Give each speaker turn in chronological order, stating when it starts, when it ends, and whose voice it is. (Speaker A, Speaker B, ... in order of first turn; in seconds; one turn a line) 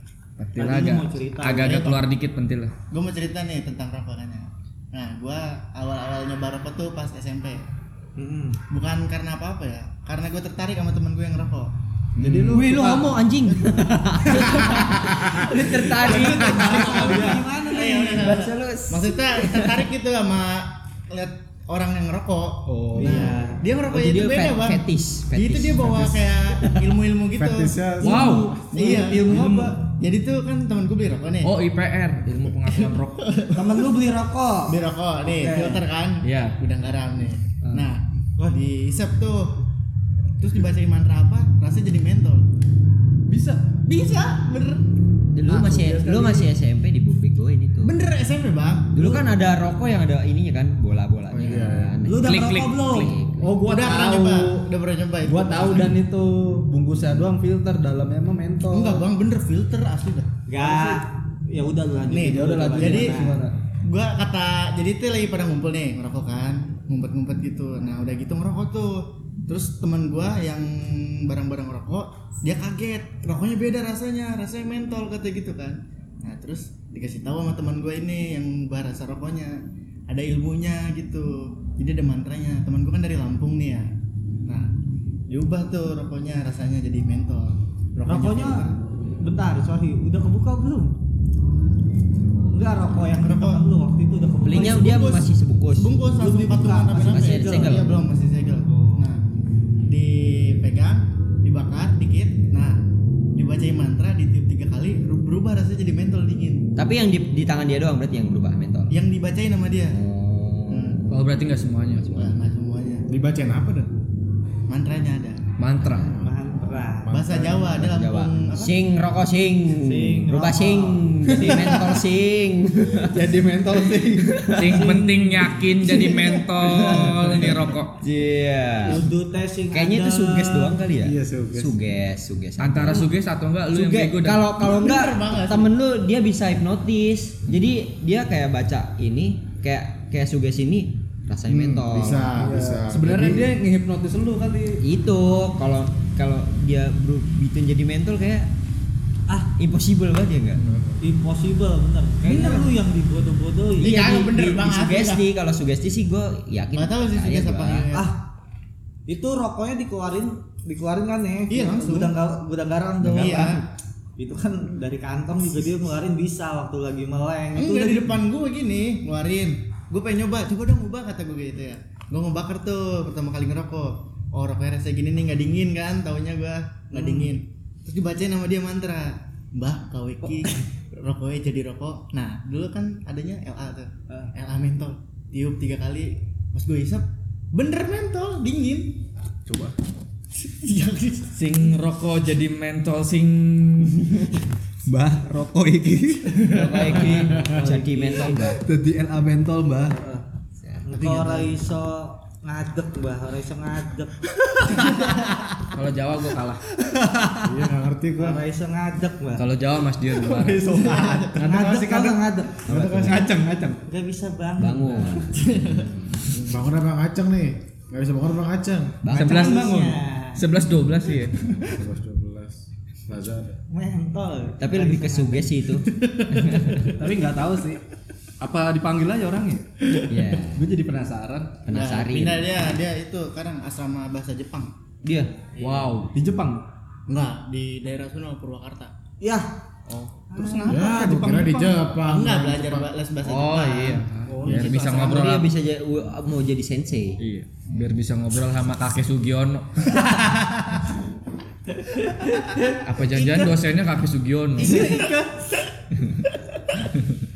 Speaker A: 0.4-2.7
Speaker B: 0.6-1.8
Speaker C: 1.6-2.0
Speaker C: 2.9-7.6
Speaker B: 8.2-8.6
Speaker C: 8.7-11.7
Speaker A: 12.2-12.6
Speaker D: 12.2-13.2
Speaker E: 12.5-19.8
Speaker C: 13.4-14.7
Speaker B: 14.3-14.7
Speaker D: 14.4-14.6
Speaker B: 15.4-18.4
Speaker D: 15.7-17.5
Speaker C: 17.4-28.0
Speaker D: 22.7-23.6
Speaker B: 23.0-23.6
Speaker E: 23.9-26.2
Speaker F: 27.4-29.0
Speaker A: 28.0-28.6
Speaker D: 28.1-29.8
Speaker C: 28.7-31.6
Speaker A: 31.4-33.2
Speaker C: 32.7-34.0
Speaker B: 33.5-34.8
Speaker C: 34.7-39.5
Speaker D: 35.2-35.8
Speaker A: 36.2-36.6
Speaker C: 40.4-42.5
Speaker D: 43.3-43.8
Speaker C: 43.9-44.9
Speaker E: 45.3-48.0
Speaker D: 45.5-46.5
Speaker C: 47.8-49.2
Speaker E: 48.9-53.5
Speaker A: 51.4-51.7
Speaker F: 51.4-52.0
Speaker B: 52.1-53.1
Speaker A: 52.2-53.1
Speaker D: 53.4-54.6
Speaker C: 53.7-56.0
Speaker D: 55.2-59.0
Speaker C: 58.7-60.3
Speaker B: 60.5-63.4
Speaker C: 62.1-63.2
Speaker D: 62.1-63.5
Speaker C: 63.8-83.9
Speaker C: 84.5-84.7
Speaker C: 85.3-88.7
Speaker B: 88.0-91.0
Speaker B: 92.5-95.0
Speaker C: 93.2-93.6
Speaker E: 94.4-95.9
Speaker C: 94.5-95.2
Speaker C: 95.8-99.2
Speaker D: 96.2-97.1
Speaker B: 96.2-97.8
Speaker E: 97.0-97.9
Speaker B: 98.7-99.1
Speaker C: 99.9-102.8
Speaker C: 103.3-106.7
Speaker E: 106.8-109.0
Speaker C: 108.9-110.0
Speaker E: 109.9-111.3
Speaker C: 110.7-111.0
Speaker A: 111.1-112.1
Speaker E: 112.0-112.4
Speaker C: 112.2-113.1
Speaker F: 113.1-113.9
Speaker C: 114.7-115.4
Speaker A: 115.6-116.2
Speaker E: 115.8-116.1
Speaker F: 116.0-116.3
Speaker B: 116.2-117.3
Speaker F: 117.0-117.9
Speaker C: 117.1-118.8
Speaker E: 117.8-123.4
Speaker B: 119.7-121.1
Speaker D: 121.3-122.0
Speaker D: 123.0-126.4
Speaker E: 124.0-124.9
Speaker A: 124.6-128.0
Speaker B: 124.7-125.5
Speaker E: 126.6-129.0
Speaker B: 128.9-130.8
Speaker E: 129.7-133.1
Speaker F: 131.0-131.8
Speaker A: 132.6-134.5
Speaker E: 133.7-142.4
Speaker C: 134.6-135.7
Speaker F: 141.5-143.5
Speaker D: 142.3-144.8
Speaker E: 144.8-148.5
Speaker E: 149.6-150.6
Speaker F: 150.6-151.0
Speaker B: 151.0-154.0
Speaker D: 152.2-152.7
Speaker C: 153.8-155.2
Speaker E: 153.8-157.9
Speaker C: 156.7-158.1
Speaker B: 157.9-158.2
Speaker B: 159.1-163.7
Speaker C: 161.5-162.1
Speaker C: 163.1-163.6
Speaker D: 163.2-163.6
Speaker B: 164.2-168.2
Speaker C: 167.6-189.0
Speaker B: 176.9-177.3
Speaker D: 189.5-189.7
Speaker C: 190.4-191.8
Speaker A: 191.3-194.3
Speaker D: 194.9-200.2
Speaker E: 196.4-198.6
Speaker B: 196.9-198.4
Speaker E: 200.6-200.9
Speaker B: 200.9-205.3
Speaker D: 200.9-201.6
Speaker A: 205.7-206.6
Speaker F: 207.4-208.4
Speaker B: 208.2-209.5
Speaker A: 209.4-210.8
Speaker D: 210.3-213.8
Speaker B: 210.5-212.7
Speaker C: 210.8-211.4
Speaker C: 212.7-213.1
Speaker B: 213.9-215.3
Speaker E: 214.6-216.2
Speaker C: 215.2-215.9
Speaker F: 216.3-219.0
Speaker E: 219.0-219.6
Speaker B: 219.1-220.5
Speaker A: 219.1-221.3
Speaker D: 219.2-219.7
Speaker F: 221.6-223.6
Speaker B: 223.7-225.5
Speaker E: 224.6-226.9
Speaker D: 226.9-227.8
Speaker D: 228.4-231.6
Speaker E: 230.1-230.7
Speaker E: 231.7-232.7
Speaker C: 231.7-234.7
Speaker E: 235.0-235.4
Speaker A: 235.6-236.1
Speaker D: 236.1-236.6
Speaker C: 237.1-238.9
Speaker B: 239.2-239.5
Speaker A: 239.9-240.8
Speaker B: 240.3-240.9
Speaker D: 240.6-241.9
Speaker F: 240.7-242.9
Speaker C: 242.1-245.2
Speaker A: 243.2-245.5
Speaker D: 244.3-245.2
Speaker E: 244.8-247.2
Speaker A: 247.2-250.0
Speaker B: 250.2-250.6
Speaker B: 252.0-253.5
Speaker A: 252.8-254.9
Speaker B: 254.6-255.7